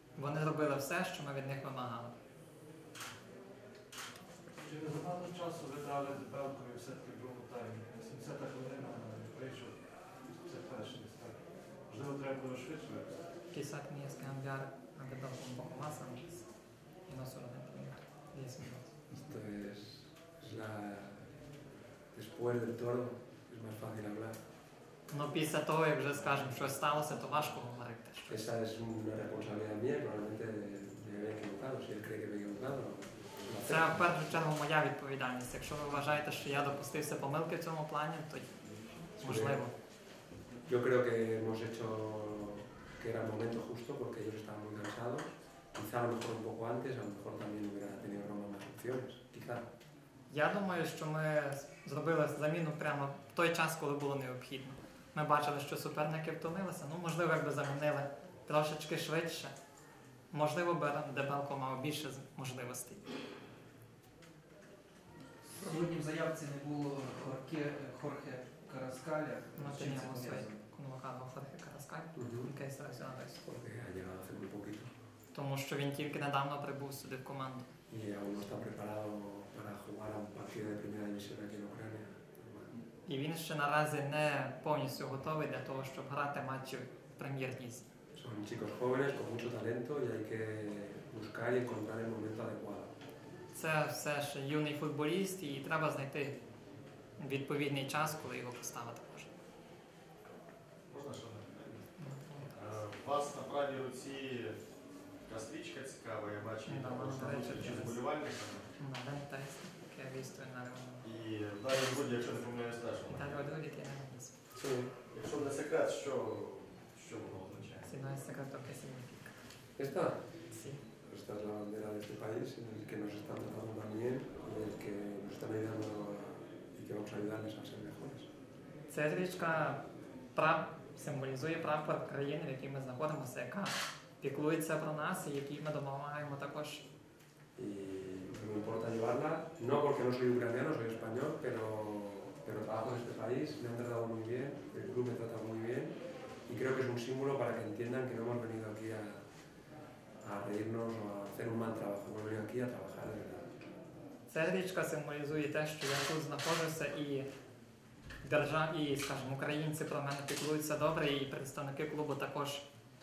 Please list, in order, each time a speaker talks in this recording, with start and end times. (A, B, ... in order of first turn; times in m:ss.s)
0:00.2-0:02.1 A
0:04.6-0:13.2 B
0:13.5-0:16.4 A
0:17.1-0:18.9 A
0:19.1-0:21.3 C
0:22.1-0:24.4 C
0:25.1-0:28.4 A
0:28.3-0:34.1 C
0:33.6-0:38.5 A
0:39.2-0:39.7 A
0:39.2-0:39.6 C
0:40.6-0:49.6 C
0:50.3-0:59.5 A
1:00.3-1:03.0 A
1:05.4-1:10.6 D
1:09.6-1:13.4 A
1:12.1-1:12.5 C
1:13.4-1:14.9 C
1:15.3-1:17.7 A
1:17.9-1:22.7 C
1:23.1-1:27.8 A
1:28.2-1:32.9 C
1:33.5-1:36.4 A
1:37.2-1:39.3 A
1:40.9-1:41.9 E
1:42.0-1:42.5 A
1:42.5-1:44.6 E
1:45.2-1:48.7 E
1:46.6-1:48.1 A
1:48.8-1:51.1 A
1:51.0-1:53.4 E
1:51.7-1:52.4 A
1:53.0-1:54.3 A
1:54.6-1:54.9 C
1:55.1-1:57.9 E
1:57.8-1:59.3 A
1:59.8-2:00.2 C
2:00.5-2:00.8 A
2:01.0-2:08.3 C
2:08.9-2:09.8 A
2:10.3-2:16.8 A
2:17.6-2:25.9 C
2:26.5-2:29.2 C
2:30.2-2:33.5 C
2:34.3-2:37.3 A
2:38.2-2:42.6 A